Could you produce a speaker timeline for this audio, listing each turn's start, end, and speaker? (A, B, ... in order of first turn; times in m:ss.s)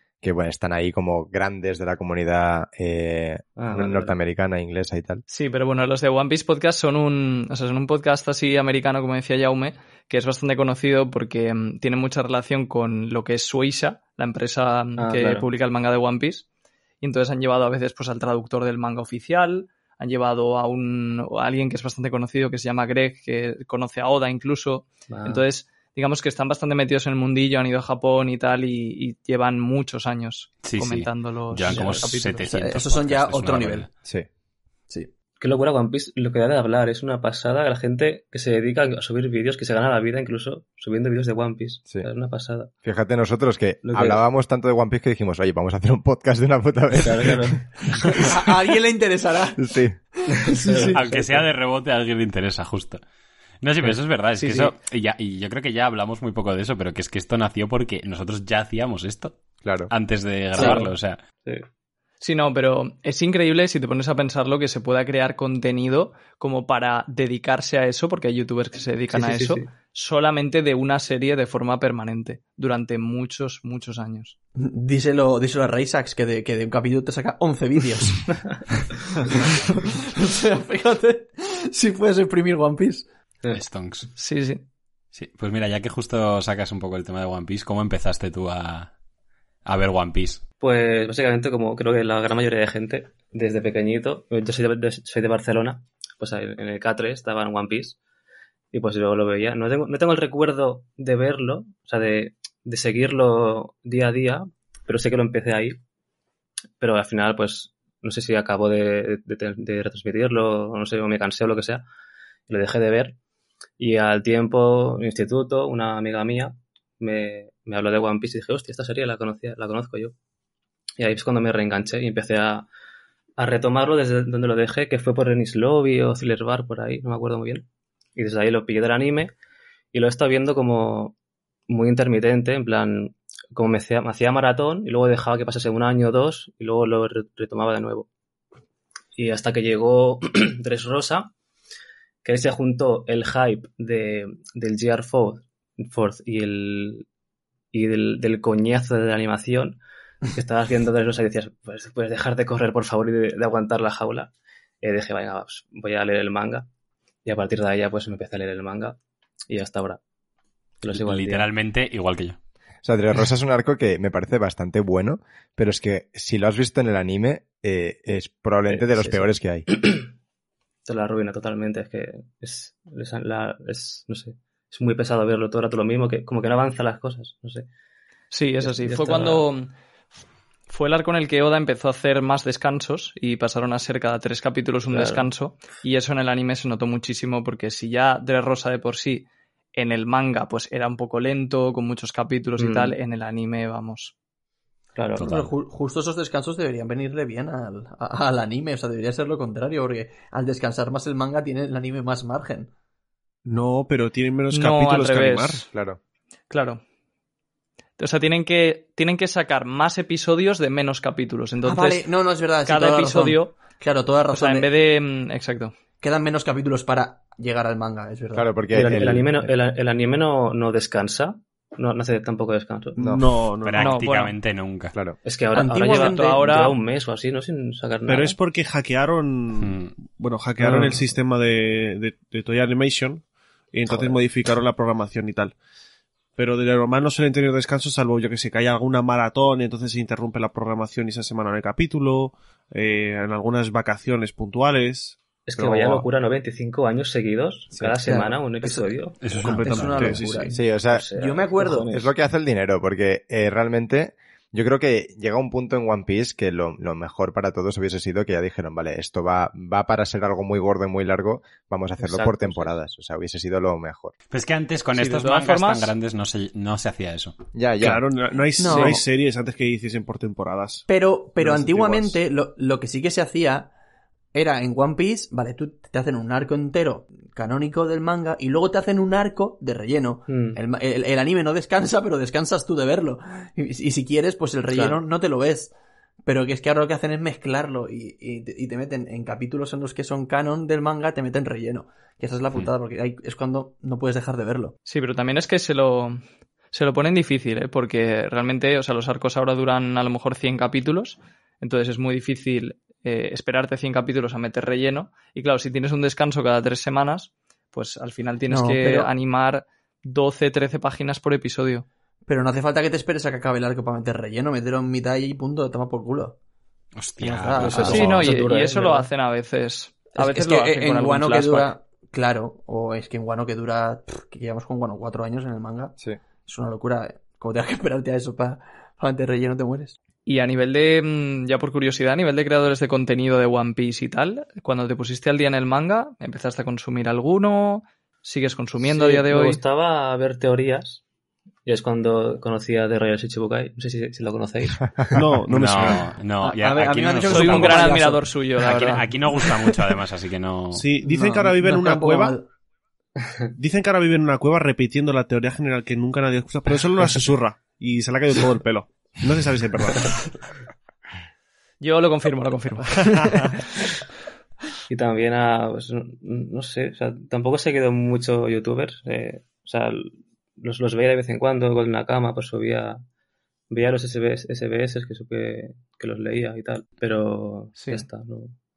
0:00.2-0:05.2 A
0:03.6-0:04.1 B
0:05.3-0:16.4 C
0:15.0-0:15.5 B
0:17.0-0:32.5 C
0:25.1-0:25.4 B
0:30.6-0:33.9 D
0:31.7-0:32.0 B
0:32.4-0:33.9 E
0:35.4-0:42.7 B
0:42.8-0:48.4 A
0:43.8-0:44.2 B
0:47.0-0:48.1 B
0:48.2-0:51.0 E
0:49.6-0:49.9 A
0:50.4-0:51.5 B
0:50.9-0:53.0 D
0:53.6-0:59.4 D
0:54.4-0:54.8 C
0:59.6-0:59.9 A
0:59.9-1:01.2 D
1:00.5-1:00.9 B
1:02.2-1:14.3 C
1:09.1-1:09.7 B
1:14.6-1:18.2 E
1:19.4-1:23.0 E
1:23.5-1:24.1 D
1:24.2-1:24.6 C
1:25.1-1:28.9 D
1:29.6-1:30.4 D
1:30.6-1:38.0 B
1:38.7-1:45.8 B
1:46.8-1:51.8 B
1:52.5-1:53.2 B
1:53.8-2:00.1 B
2:01.0-2:02.7 B
2:03.4-2:09.3 B
2:09.9-2:11.2 B
2:11.7-2:18.1 B
2:19.2-2:21.3 B
2:22.2-2:27.1 B
2:27.7-2:29.8 B
2:30.3-2:36.7 B
2:37.2-2:39.0 B
2:39.5-2:40.0 B
2:40.8-2:41.5 B
2:40.9-2:42.4 D
2:42.8-2:49.7 A
2:48.7-2:50.1 B
2:50.8-2:57.7 B
2:58.3-2:59.7 C
2:58.6-2:59.5 B
3:00.7-3:14.1 C
3:04.9-3:05.3 B
3:12.6-3:12.9 B
3:14.9-3:15.3 B
3:15.2-3:15.5 D
3:15.2-3:22.7 E
3:23.4-3:25.6 F
3:24.5-3:25.7 C
3:25.7-3:26.0 A
3:26.5-3:26.8 C
3:28.0-3:32.1 C
3:31.6-3:34.7 E
3:32.6-3:33.6 C
3:34.3-3:35.7 C
3:36.0-3:38.6 E
3:38.3-3:39.5 A
3:38.7-3:43.0 B
3:43.0-3:44.0 F
3:43.0-3:43.2 A
3:43.6-3:44.9 D
3:43.8-3:44.4 C
3:45.2-3:48.4 B
3:45.5-3:46.4 E
3:45.9-3:46.8 C
3:48.1-3:55.6 F
3:49.6-3:49.9 D
3:53.9-3:54.1 B
3:56.4-4:06.0 F
4:05.4-4:09.4 B
4:08.0-4:11.9 E
4:09.2-4:10.2 D
4:09.4-4:10.5 F
4:10.5-4:11.1 A
4:10.8-4:12.1 B
4:11.9-4:24.1 A
4:22.0-4:22.7 B
4:24.3-4:27.4 D
4:24.9-4:25.9 C
4:27.5-4:28.0 A
4:27.8-4:30.9 F
4:28.6-4:29.0 E
4:30.9-4:33.7 E
4:31.4-4:32.2 F
4:34.3-4:45.7 E
4:40.3-4:40.6 B
4:44.7-4:45.0 B
4:46.2-4:54.8 E
4:54.8-4:56.2 C
4:56.7-5:11.8 C
5:08.5-5:09.1 E
5:12.3-5:16.4 E
5:17.0-5:18.3 D
5:17.2-5:18.2 E
5:17.6-5:19.1 B
5:17.8-5:21.7 C
5:20.1-5:30.0 E
5:30.2-5:39.6 C
5:38.8-5:41.0 B
5:41.6-5:45.3 B
5:45.1-5:46.1 F
5:45.5-5:50.9 D
5:46.4-5:48.3 E
5:47.2-5:49.5 C
5:50.7-5:52.4 F
5:51.0-5:52.5 E
5:53.6-6:00.2 F
6:01.8-6:03.6 C
6:04.9-6:13.0 B
6:13.7-6:18.5 B
6:17.8-6:18.0 C